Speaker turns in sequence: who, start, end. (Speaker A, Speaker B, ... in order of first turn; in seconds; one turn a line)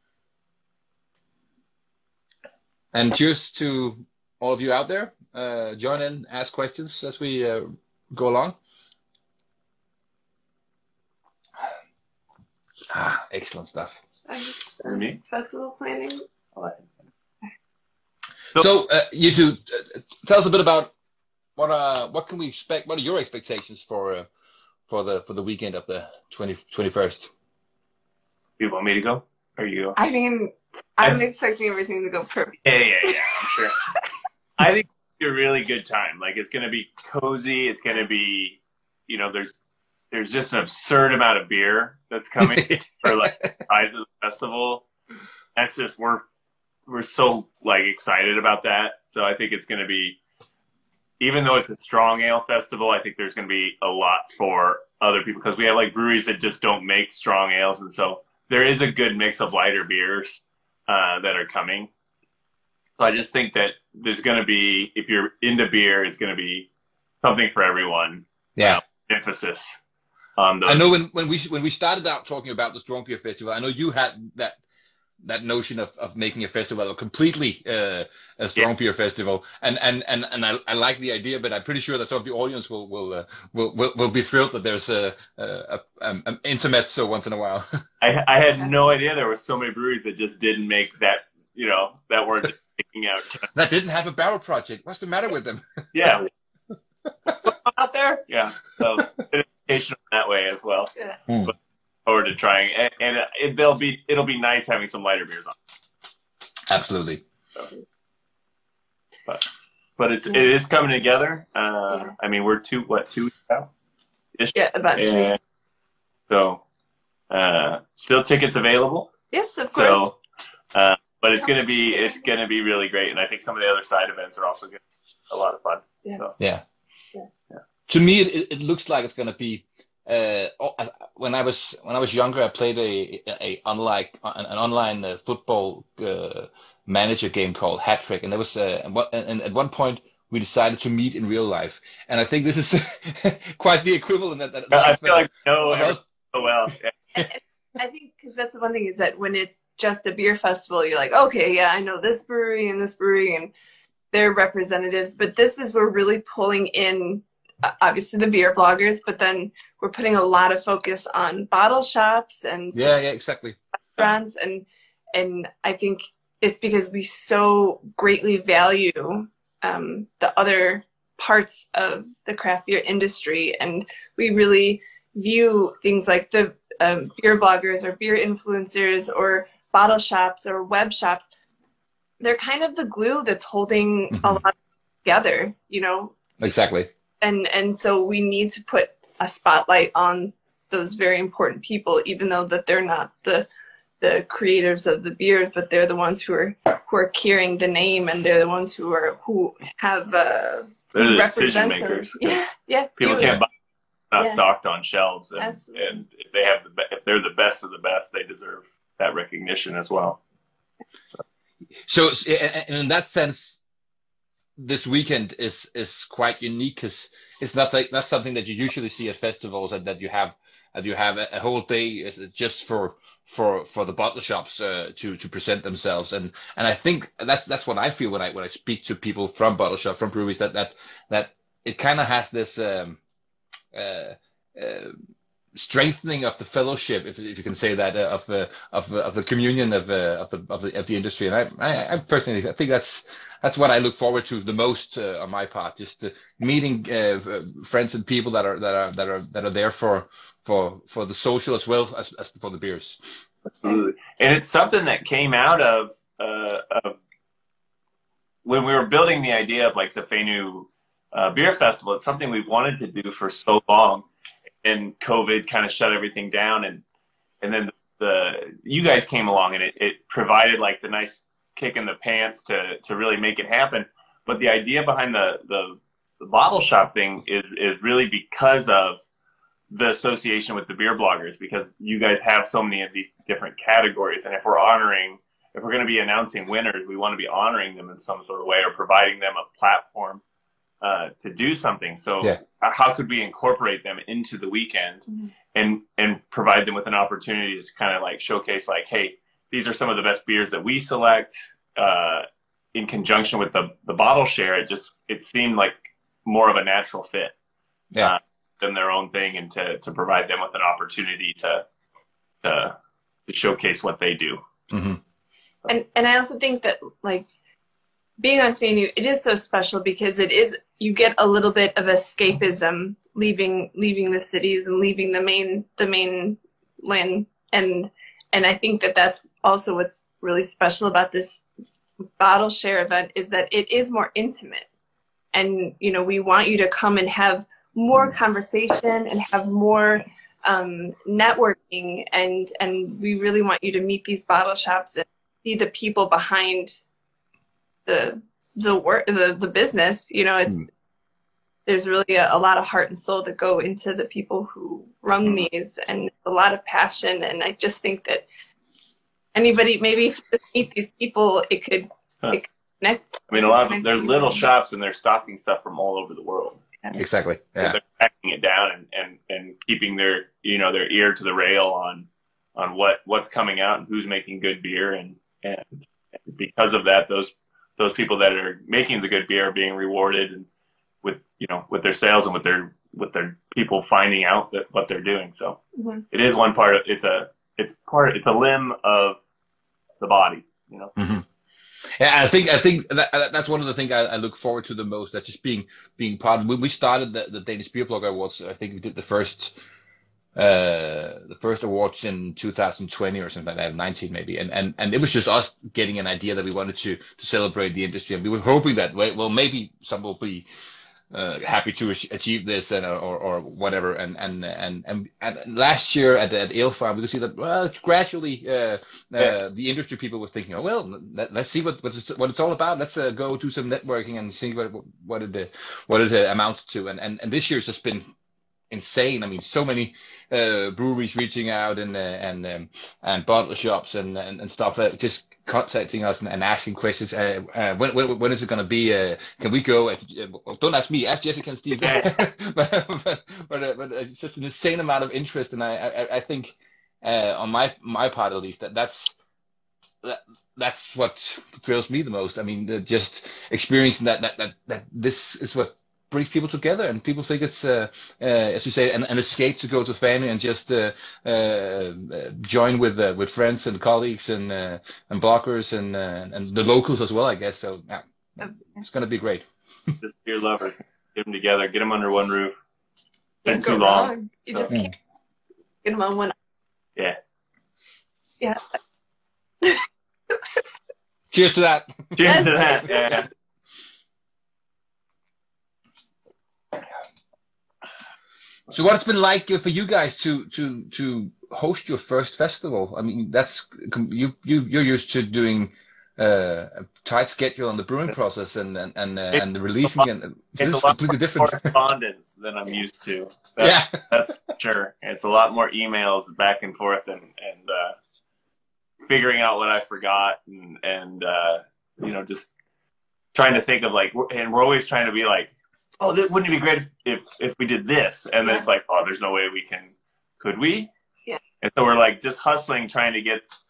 Speaker A: 2.9-8.6
Speaker A: 12.9-14.0
Speaker B: 14.3-16.2
Speaker C: 14.8-15.2
Speaker C: 16.5-16.8
Speaker A: 18.6-20.9
Speaker A: 21.6-24.3
Speaker A: 24.9-27.3
Speaker C: 28.6-30.0
Speaker B: 29.9-33.2
Speaker C: 32.6-33.8
Speaker C: 34.6-39.6
Speaker C: 40.1-44.8
Speaker A: 42.4-43.6
Speaker C: 45.5-46.2
Speaker C: 46.9-50.2
Speaker C: 51.2-61.9
Speaker C: 63.0-66.7
Speaker C: 67.2-69.8
Speaker A: 68.6-68.8
Speaker C: 70.4-70.9
Speaker A: 70.7-74.6
Speaker A: 75.2-87.8
Speaker C: 88.0-93.5
Speaker A: 93.5-96.1
Speaker C: 95.9-96.3
Speaker A: 97.2-97.5
Speaker B: 97.4-98.2
Speaker C: 98.3-100.9
Speaker A: 101.3-101.5
Speaker C: 102.0-105.5
Speaker A: 106.7-107.2
Speaker C: 110.0-113.7
Speaker C: 114.4-115.4
Speaker B: 114.5-115.4
Speaker C: 116.3-116.6
Speaker C: 117.3-119.1
Speaker B: 119.3-120.0
Speaker C: 119.7-120.2
Speaker C: 120.7-126.3
Speaker B: 121.4-122.3
Speaker A: 126.4-126.6
Speaker A: 127.9-146.0
Speaker C: 144.7-146.9
Speaker B: 147.1-153.5
Speaker B: 154.1-162.9
Speaker A: 162.7-163.6
Speaker B: 163.9-181.3
Speaker B: 182.2-186.2
Speaker A: 184.1-184.4
Speaker A: 186.4-186.9
Speaker B: 187.2-193.5
Speaker B: 194.0-203.4
Speaker C: 200.9-203.5
Speaker C: 204.1-210.2
Speaker B: 205.4-206.0
Speaker A: 211.8-213.6
Speaker A: 214.6-233.0
Speaker A: 233.7-234.9
Speaker A: 235.5-253.2
Speaker C: 253.6-257.0
Speaker C: 258.4-264.1
Speaker C: 264.6-266.8
Speaker C: 267.4-279.0
Speaker C: 279.7-290.2
Speaker C: 290.8-307.3
Speaker C: 308.0-311.6
Speaker C: 312.4-312.7
Speaker C: 313.3-314.4
Speaker A: 314.7-315.0
Speaker B: 315.7-317.2
Speaker B: 318.2-331.4
Speaker B: 332.1-334.6
Speaker B: 335.3-346.8
Speaker B: 347.9-350.6
Speaker B: 351.6-358.3
Speaker B: 359.3-364.5
Speaker C: 363.3-366.6
Speaker A: 366.9-367.8
Speaker C: 367.6-380.5
Speaker C: 381.0-385.6
Speaker B: 385.8-386.0
Speaker C: 386.1-389.2
Speaker C: 390.0-390.9
Speaker A: 391.0-391.2
Speaker A: 392.0-399.6
Speaker A: 400.3-410.5
Speaker A: 411.1-428.0
Speaker A: 428.7-449.1
Speaker C: 441.8-442.2
Speaker A: 450.0-469.9
Speaker C: 470.0-472.6
Speaker B: 473.4-474.9
Speaker C: 473.4-474.7
Speaker B: 475.8-476.3
Speaker B: 479.6-480.4
Speaker A: 481.3-482.6
Speaker C: 482.1-483.3
Speaker B: 482.2-483.3
Speaker A: 488.7-501.7
Speaker C: 499.3-500.1
Speaker C: 500.6-507.9
Speaker A: 503.6-504.3
Speaker C: 509.1-512.5
Speaker C: 513.3-520.9
Speaker C: 521.6-523.4